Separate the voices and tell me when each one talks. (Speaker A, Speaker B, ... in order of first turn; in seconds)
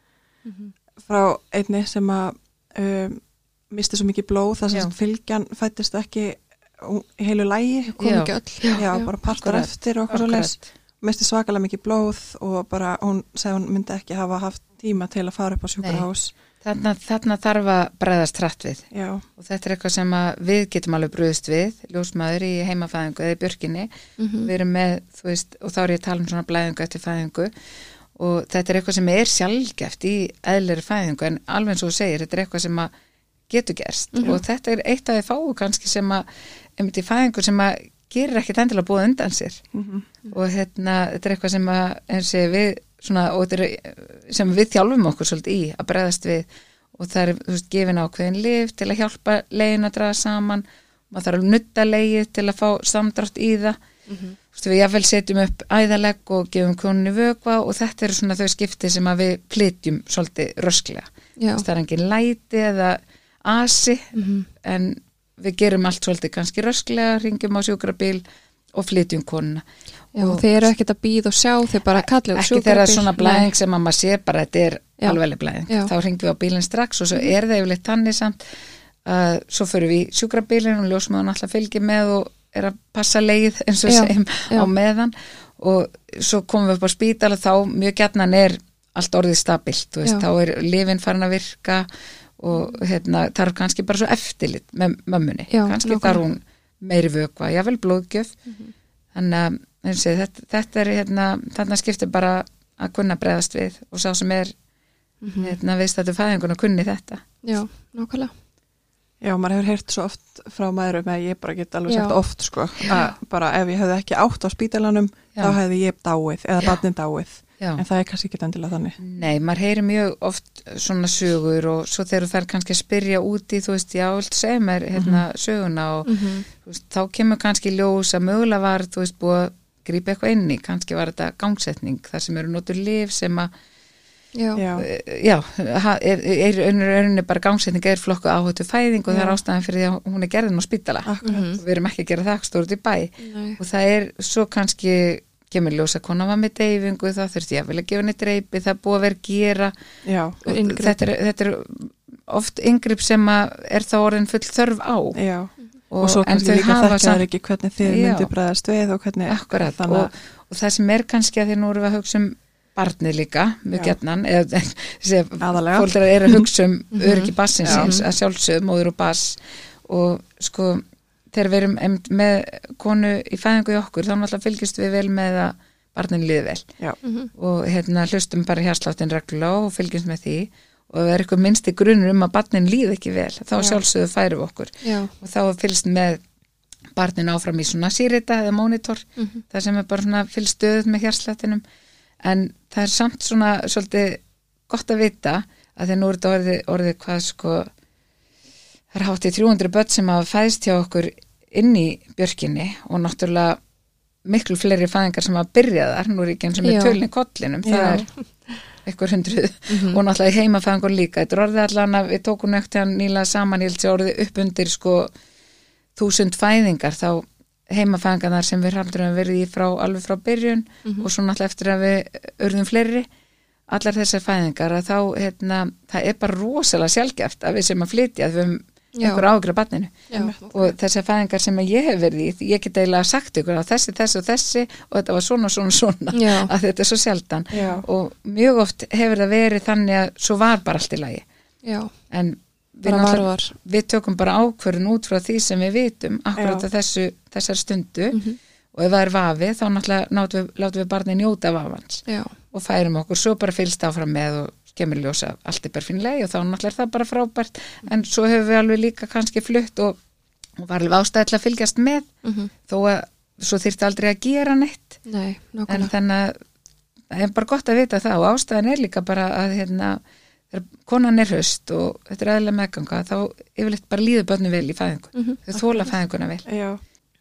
Speaker A: 0.5-0.7, 7.9-9.1, 24.2-24.5, 34.1-34.4, 54.1-54.4, 61.4-61.6, 64.1-64.5, 70.2-73.5, 75.0-75.9, 83.9-84.7, 92.5-92.8, 95.5-96.2, 98.5-98.7, 105.2-105.5, 107.4-108.3, 111.9-112.2, 112.8-113.1, 126.0-126.5, 134.3-134.6, 141.2-141.6, 143.2-143.6, 150.4-151.0, 166.9-168.1, 177.0-177.3, 184.8-185.1, 206.6-207.0, 209.7-210.0, 229.0-229.2, 230.1-230.7, 236.1-236.5, 241.6-241.9, 242.8-243.5, 248.1-248.4, 252.1-252.3, 262.2-262.5, 265.1-265.9, 275.1-275.4
Speaker B: 1.0-8.0, 8.8-16.3, 18.9-19.2, 39.7-40.1, 109.2-119.0, 134.6-134.9, 139.1-139.3, 141.1-141.5, 150.0-150.4, 155.1-160.1, 163.7-164.0, 165.4-166.5, 167.6-167.9, 207.6-208.1, 230.1-230.4, 237.5-237.8, 246.3-246.7, 276.4-276.8
Speaker C: 8.0-10.7, 15.8-16.1, 16.6-18.9, 19.4-23.9, 24.4-27.5, 28.1-32.9, 33.5-36.2, 36.8-39.6, 40.3-53.8, 54.5-70.7, 72.0-78.4, 79.0-91.9, 92.4-98.3, 99.1-104.5, 105.4-107.2, 119.0-133.5, 134.8-149.7, 150.4-155.2, 155.9-157.2, 157.8-158.3, 159.3-176.7, 177.4-186.2, 186.9-191.6, 192.2-197.7, 198.9-203.6, 204.2-208.1, 208.8-215.1, 215.9-223.1, 223.7-241.2, 242.1-248.2, 248.7-260.0, 260.6-262.1, 262.7-265.0, 265.7-266.4, 267.1-270.0, 270.5-276.4